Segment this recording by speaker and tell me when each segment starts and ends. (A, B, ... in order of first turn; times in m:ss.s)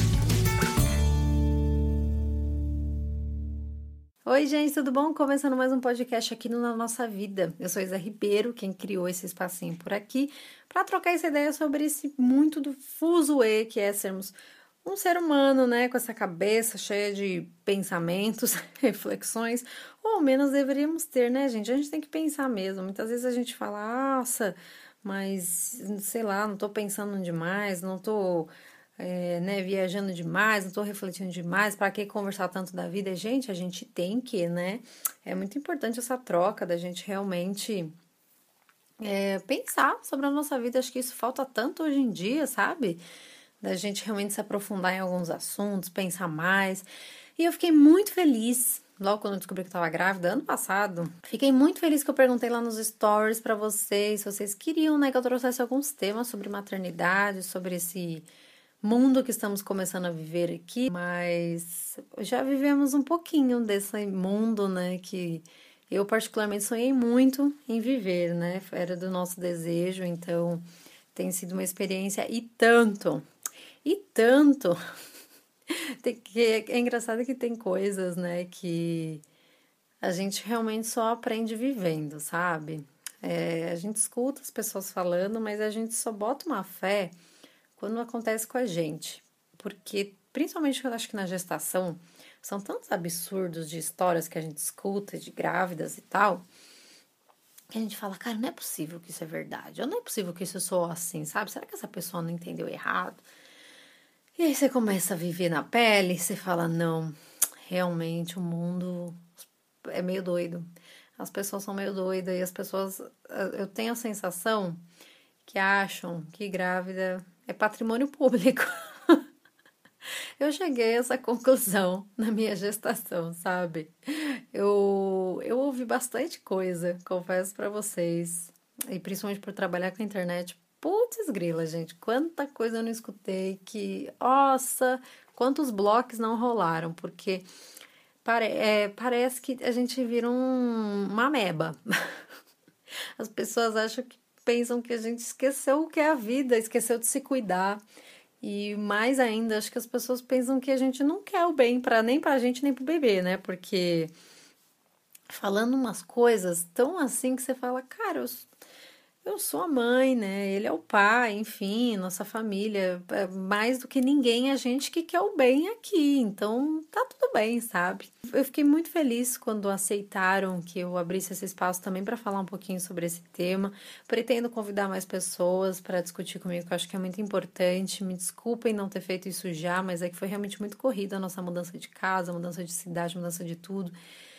0:04.2-0:37.9 A
0:39.0-0:43.0 A
0:43.6-0:58.3 A
0:58.8-1:10.6 A
1:11.1-1:13.2 A
1:13.8-1:14.8 A
1:15.7-1:19.2 A
1:20.0-1:27.1 A
1:27.8-1:36.4 A
1:37.7-1:43.2 A
1:44.4-1:54.8 A
1:55.4-1:59.2 A
2:00.4-2:17.4 A
2:18.2-2:22.2 A
2:23.2-2:27.8 A
2:28.4-2:34.1 A
2:35.3-2:38.5 A
2:39.2-3:04.0 A